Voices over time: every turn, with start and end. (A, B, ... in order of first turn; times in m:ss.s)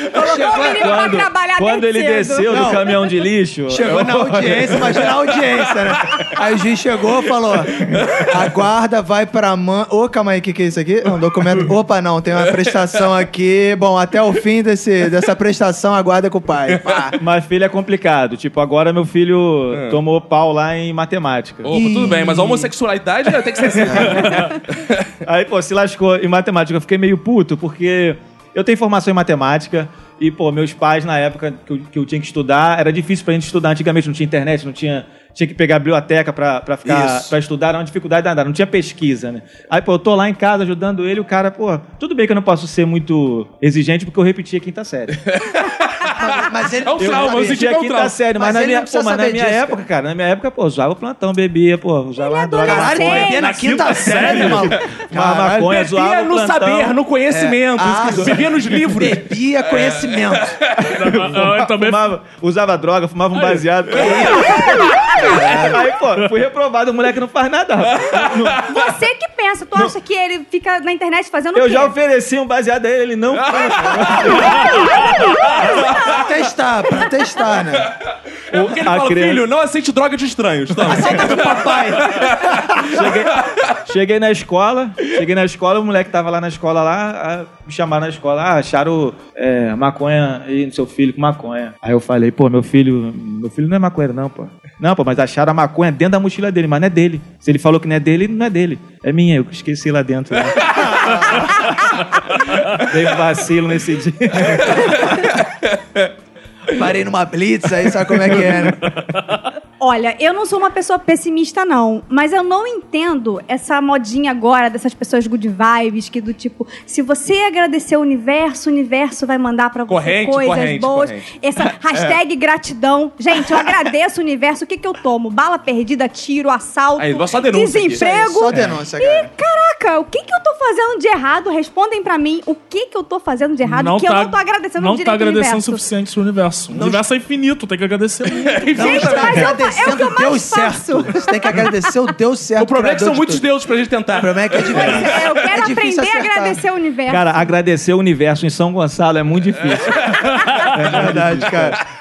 0:00.1-0:01.0 A
0:00.1-0:03.0 B
0:00.7-0:04.9 C
0:02.5-0:02.8 A
0:03.7-0:17.2 A
0:03.9-0:05.2 D
0:08.0-0:08.3 D
0:16.7-0:17.0 D
0:17.2-0:21.8 C
0:19.7-0:20.0 D
0:21.6-0:25.1 D
0:21.7-0:22.7 A
0:23.8-0:24.3 A
0:23.9-0:24.6 C
0:25.2-0:45.2 C
0:36.8-0:37.3 A
0:45.3-0:46.2 D
0:46.2-0:47.8 A
0:46.8-0:48.2 D
0:47.0-0:57.0 C
0:48.4-0:49.8 A
0:52.2-0:53.5 B
0:52.6-0:55.8 A
0:53.4-0:54.7 E
0:55.7-1:00.7 D
0:57.3-1:00.6 A
1:00.9-1:02.1 E
1:00.9-1:08.6 C
1:03.3-1:03.6 E
1:04.0-1:05.8 A
1:08.0-1:08.7 D
1:08.7-1:11.9 B
1:11.5-1:15.2 C
1:13.5-1:14.2 D
1:14.5-1:16.2 B
1:16.0-1:17.9 A
1:18.5-1:19.4 C
1:18.5-1:23.8 D
1:20.8-1:22.9 A
1:22.8-1:41.6 C
1:40.7-1:41.5 A
1:42.7-1:45.0 C
1:46.7-1:48.9 A
1:49.8-2:15.8 B
1:59.9-2:01.3 D
2:07.0-2:08.0 D
2:08.0-2:09.3 A
2:13.6-2:19.3 E
2:16.7-2:17.1 A
2:18.3-2:19.5 D
2:18.8-2:23.4 A
2:18.8-2:21.4 B
2:22.6-2:25.3 D
2:24.2-2:26.6 A
2:24.8-2:27.4 B
2:27.1-2:31.8 C
2:29.9-2:30.5 D
2:30.8-2:31.8 A